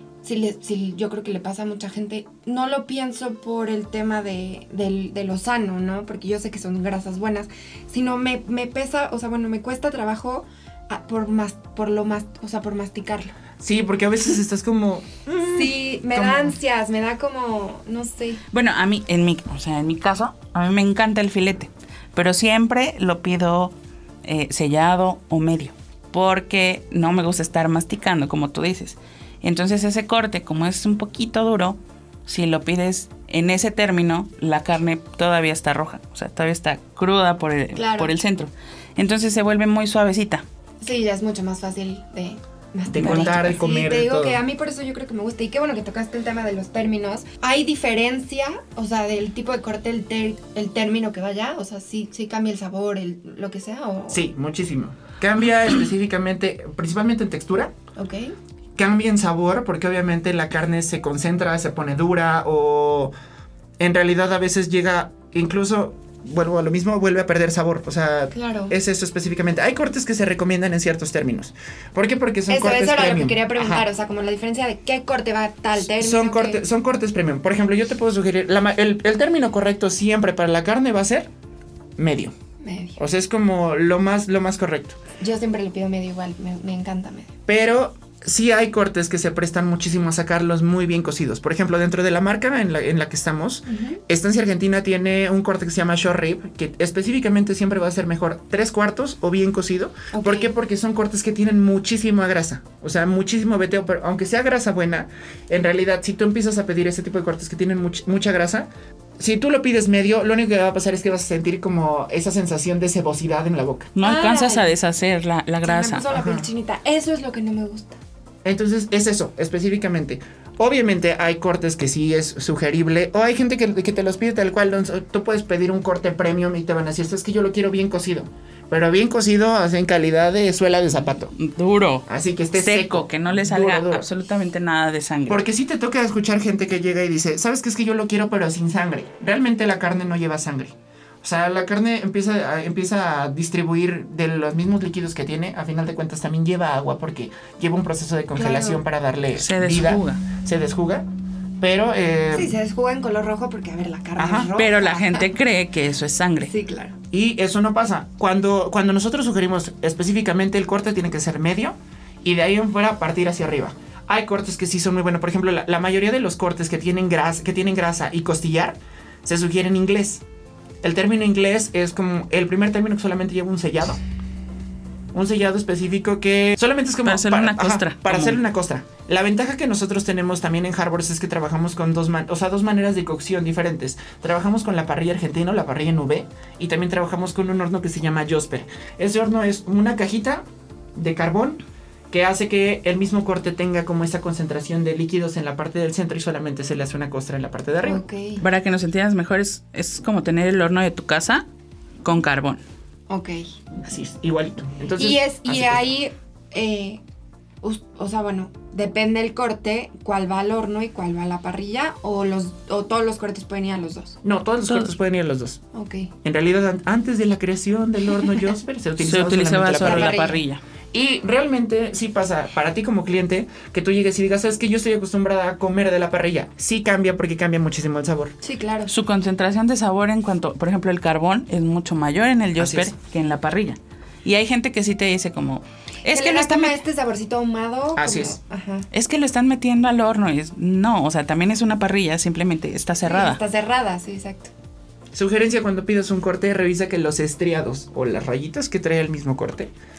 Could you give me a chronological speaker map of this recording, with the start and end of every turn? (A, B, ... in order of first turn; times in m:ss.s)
0:00.2-0:13.4 A
0:13.6-0:16.5 B
0:15.4-0:18.4 A
0:18.5-0:40.4 C
0:37.7-0:38.1 A
0:40.8-0:54.2 A
0:42.9-0:44.4 B
0:43.0-0:43.4 C
0:54.1-0:57.7 B
0:58.0-0:58.3 A
0:58.8-1:03.1 B
1:03.8-1:13.8 B
1:08.3-1:08.7 A
1:12.5-1:16.6 A
1:15.8-1:21.3 B
1:22.0-1:22.3 B
1:22.6-1:23.0 A
1:23.0-1:25.0 B
1:25.2-1:27.3 A
1:27.5-1:53.9 B
1:33.7-1:34.0 A
1:40.1-1:40.5 A
1:54.0-1:56.0 C
1:54.0-1:54.7 A
1:55.6-1:58.0 A
1:56.1-1:56.5 B
1:58.4-2:11.3 B
2:11.4-2:15.4 C
2:12.1-2:14.1 B
2:15.3-2:31.1 B
2:28.3-2:28.8 A
2:29.4-2:30.2 C
2:31.6-2:32.6 B
2:32.3-2:35.3 A
2:34.2-2:34.5 B
2:34.6-2:36.5 C
2:36.4-2:37.0 A
2:37.1-2:50.2 B
2:50.8-2:54.0 B
2:55.1-3:10.4 B
2:57.0-2:58.4 C
3:10.9-3:18.0 B
3:17.8-3:18.4 A
3:18.4-3:21.4 C
3:22.0-3:22.6 C
3:23.1-3:23.5 A
3:23.8-3:25.9 B
3:25.0-3:27.0 A
3:27.6-3:34.2 A
3:34.2-3:35.6 B
3:35.7-3:36.1 A
3:36.2-3:40.3 B
3:39.0-3:40.6 C
3:39.8-3:40.4 A
3:40.9-3:48.4 B
3:48.4-3:48.9 A
3:48.9-3:56.8 C
3:52.6-3:52.9 B
3:56.1-3:58.9 A
3:58.0-3:58.4 B
3:58.9-4:03.4 C
4:03.0-4:04.5 A
4:05.1-4:09.7 B